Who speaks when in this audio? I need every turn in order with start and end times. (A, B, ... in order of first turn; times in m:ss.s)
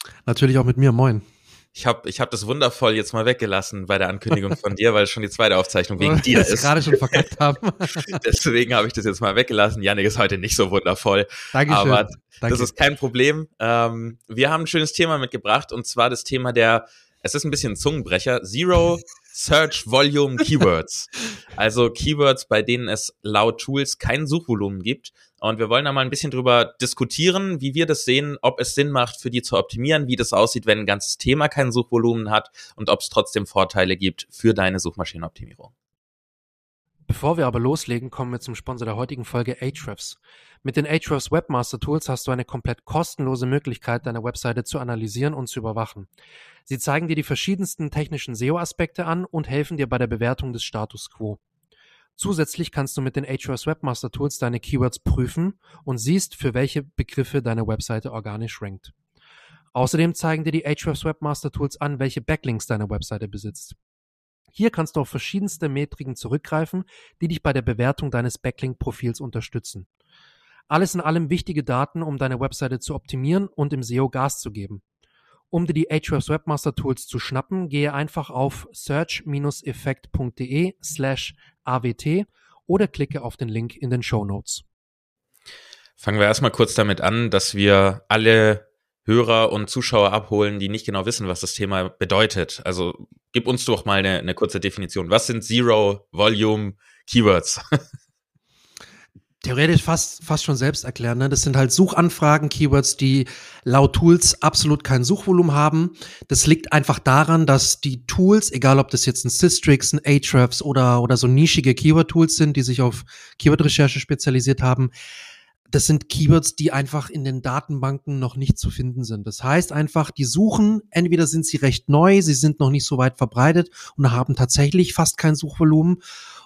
0:00.3-0:01.2 A
0:01.8-0:07.2 B
0:06.0-0:08.2 A
0:08.0-0:35.7 B
0:11.5-0:12.7 A
0:37.1-0:46.1 A
0:46.7-0:51.4 A
0:52.2-0:58.9 A
0:59.8-1:03.8 A
1:04.6-1:09.9 A
1:10.7-1:14.8 A
1:15.5-1:24.6 A
1:26.0-1:37.6 B
1:39.4-1:54.9 A
1:55.7-2:06.0 A